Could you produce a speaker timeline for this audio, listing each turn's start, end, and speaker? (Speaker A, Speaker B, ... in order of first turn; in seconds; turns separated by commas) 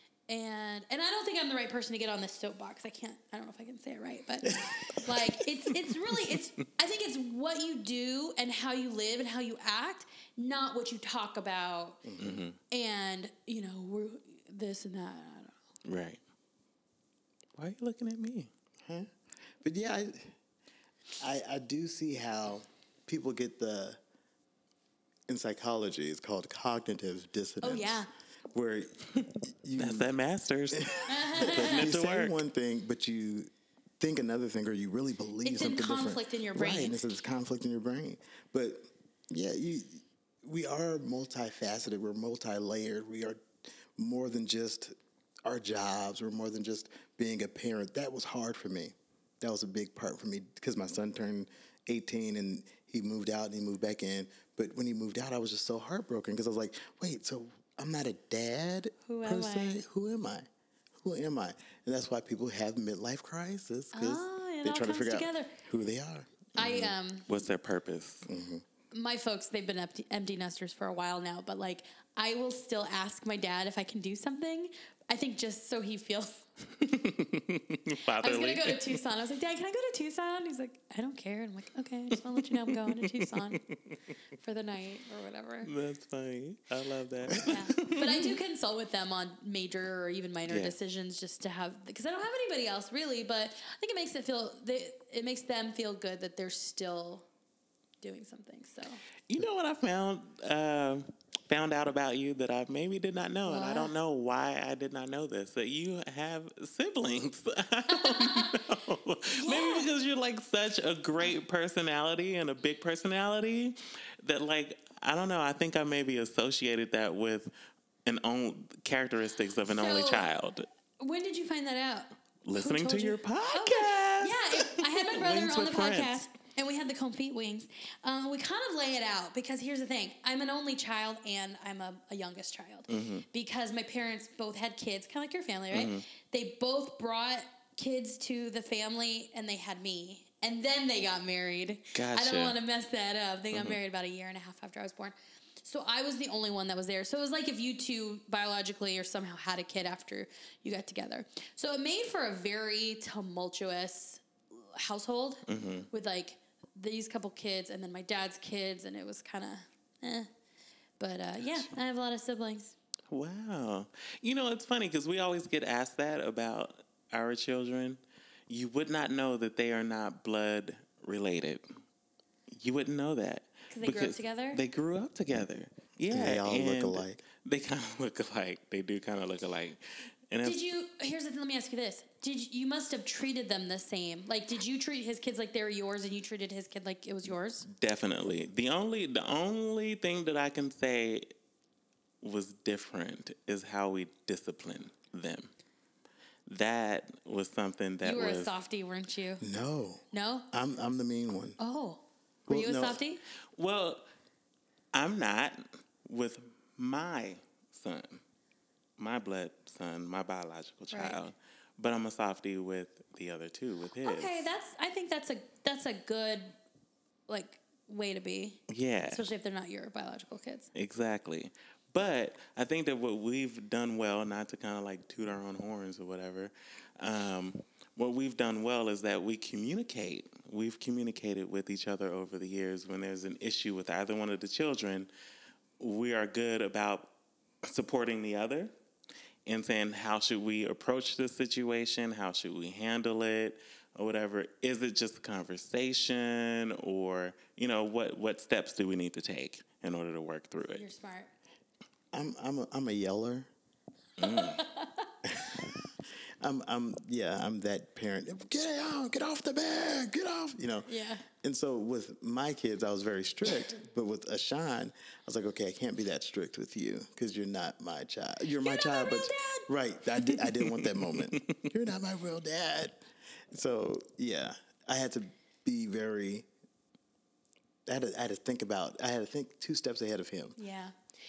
Speaker A: 0.3-12.0, Speaker B: 4.5-5.3, Speaker B: 12.1-12.4, Speaker C: 12.2-12.6, Speaker A: 12.7-15.6, Speaker C: 15.9-16.2, Speaker C: 17.6-18.5, Speaker B: 18.8-19.1, Speaker B: 19.6-20.3, Speaker B: 21.2-24.0, Speaker B: 25.3-30.1, Speaker A: 27.6-28.1, Speaker C: 29.2-32.4, Speaker B: 30.7-60.5, Speaker A: 31.1-31.9, Speaker A: 35.4-37.0, Speaker A: 59.0-59.8, Speaker B: 61.0-66.9, Speaker A: 63.9-65.5, Speaker A: 66.6-67.3, Speaker C: 66.6-68.3, Speaker B: 68.3-68.6, Speaker A: 68.9-76.5, Speaker C: 76.8-79.0, Speaker A: 78.2-83.6, Speaker C: 82.3-84.0, Speaker A: 84.4-85.7, Speaker C: 85.6-88.4, Speaker A: 87.4-97.3, Speaker C: 90.5-90.7, Speaker A: 98.0-99.0, Speaker C: 99.3-117.5, Speaker A: 103.5-103.9, Speaker A: 107.9-108.6, Speaker A: 109.3-109.9, Speaker C: 118.0-120.7, Speaker A: 119.7-120.3, Speaker A: 121.0-160.3, Speaker C: 122.5-126.2, Speaker C: 132.9-133.3, Speaker C: 135.7-136.1, Speaker C: 141.9-142.6, Speaker C: 143.5-143.8, Speaker C: 155.5-155.9, Speaker A: 161.0-162.8, Speaker C: 163.1-171.7, Speaker C: 172.5-180.6, Speaker A: 173.7-174.6, Speaker B: 176.1-177.2, Speaker A: 180.4-187.7, Speaker C: 187.7-191.3, Speaker C: 192.2-195.5, Speaker C: 196.4-198.5, Speaker A: 198.0-199.4, Speaker B: 199.4-201.6, Speaker A: 200.1-200.5, Speaker A: 201.6-203.2, Speaker B: 202.5-203.0, Speaker C: 203.6-204.1, Speaker C: 204.9-208.2, Speaker C: 209.0-214.5, Speaker A: 210.9-211.2, Speaker A: 214.0-216.6, Speaker A: 217.3-220.7, Speaker C: 218.7-219.2, Speaker C: 220.7-235.1, Speaker C: 235.8-237.1, Speaker C: 237.6-238.7, Speaker C: 239.4-250.8, Speaker A: 250.7-251.3, Speaker B: 252.1-253.5, Speaker C: 254.2-254.6, Speaker A: 254.2-255.1, Speaker B: 255.2-255.9, Speaker B: 256.4-276.5, Speaker A: 260.9-261.2, Speaker A: 268.6-269.7, Speaker C: 270.6-271.6, Speaker B: 277.9-280.6, Speaker A: 280.6-280.9